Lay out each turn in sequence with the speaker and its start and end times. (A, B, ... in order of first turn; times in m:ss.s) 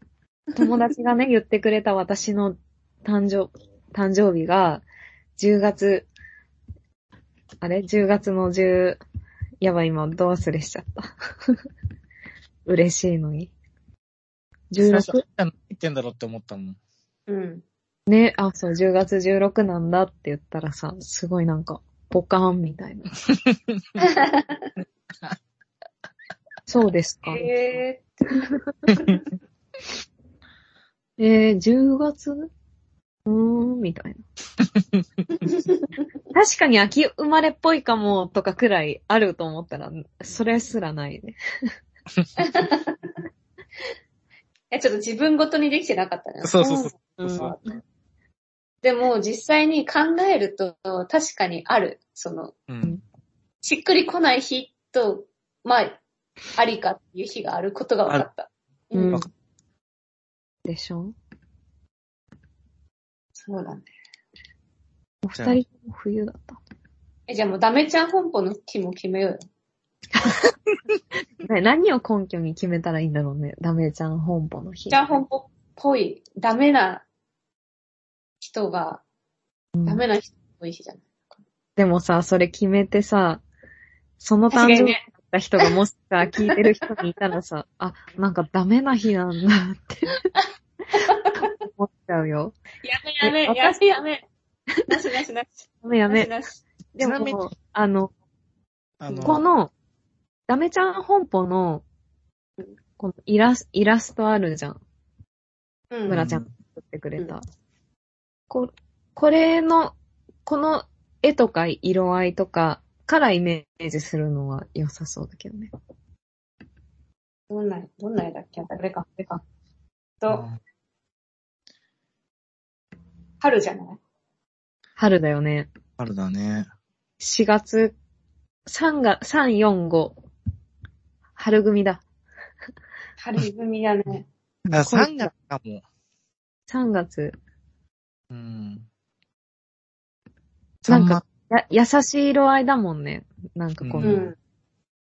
0:00.6-0:04.8 A
0:05.4-0:06.1 A
0:07.6-0:09.0 A
0:09.6-0:11.6 A
0:12.7-0:13.5 A
0:14.7-0:15.2 A
0:14.8-0:16.8 B
0:17.3-0:17.6 C
0:18.1-0:23.1 A
0:23.4-0:24.0 B
0:24.0-0:24.7 C
0:26.7-0:27.8 A
0:27.3-0:29.2 C
0:31.2-0:32.5 A
0:33.3-0:34.2 A
0:34.7-0:35.0 B
0:35.4-0:35.9 C
0:36.3-0:41.4 A
0:42.4-0:43.0 C
0:44.7-0:47.6 C
0:46.4-0:47.5 B
0:47.2-0:47.6 A
0:48.8-0:52.5 C
0:52.7-0:53.0 B
0:53.6-0:56.0 C
0:56.6-0:59.2 C
0:58.9-0:59.2 A
1:00.6-1:01.2 A
1:03.4-1:03.9 C
1:05.2-1:06.6 A
1:05.3-1:05.6 B
1:07.3-1:09.4 C
1:10.1-1:10.5 A
1:11.4-1:15.2 A
1:14.9-1:17.0 C
1:18.4-1:19.0 C
1:19.8-1:20.0 A
1:19.9-1:21.4 C
1:21.8-1:23.4 A
1:24.2-1:30.2 A
1:24.5-1:25.0 C
1:26.4-1:26.9 C
1:31.0-1:31.5 C
1:31.3-1:32.6 A
1:32.8-1:34.3 C
1:33.2-1:33.8 A
1:34.9-1:36.6 C
1:35.8-1:36.3 A
1:37.0-1:38.1 A
1:37.0-1:37.4 B
1:39.0-1:39.4 B
1:39.1-1:39.4 C
1:39.2-1:39.7 A
1:40.5-1:41.8 A
1:43.0-1:44.8 A
1:45.9-1:46.3 C
1:46.1-1:46.5 B
1:46.1-1:47.4 A
1:48.5-1:50.0 A
1:50.5-1:55.7 A
1:57.5-1:59.4 C
2:00.3-2:00.6 B
2:03.4-2:04.0 C
2:05.0-2:05.7 A
2:06.0-2:06.7 B
2:07.2-2:08.0 A
2:08.7-2:10.2 A
2:11.4-2:12.0 A
2:13.2-2:14.3 C
2:14.7-2:15.8 B
2:14.7-2:15.3 A
2:16.7-2:17.4 A
2:18.3-2:18.9 B
2:20.8-2:21.2 B
2:20.9-2:24.2 A
2:23.8-2:24.3 B
2:24.0-2:24.4 C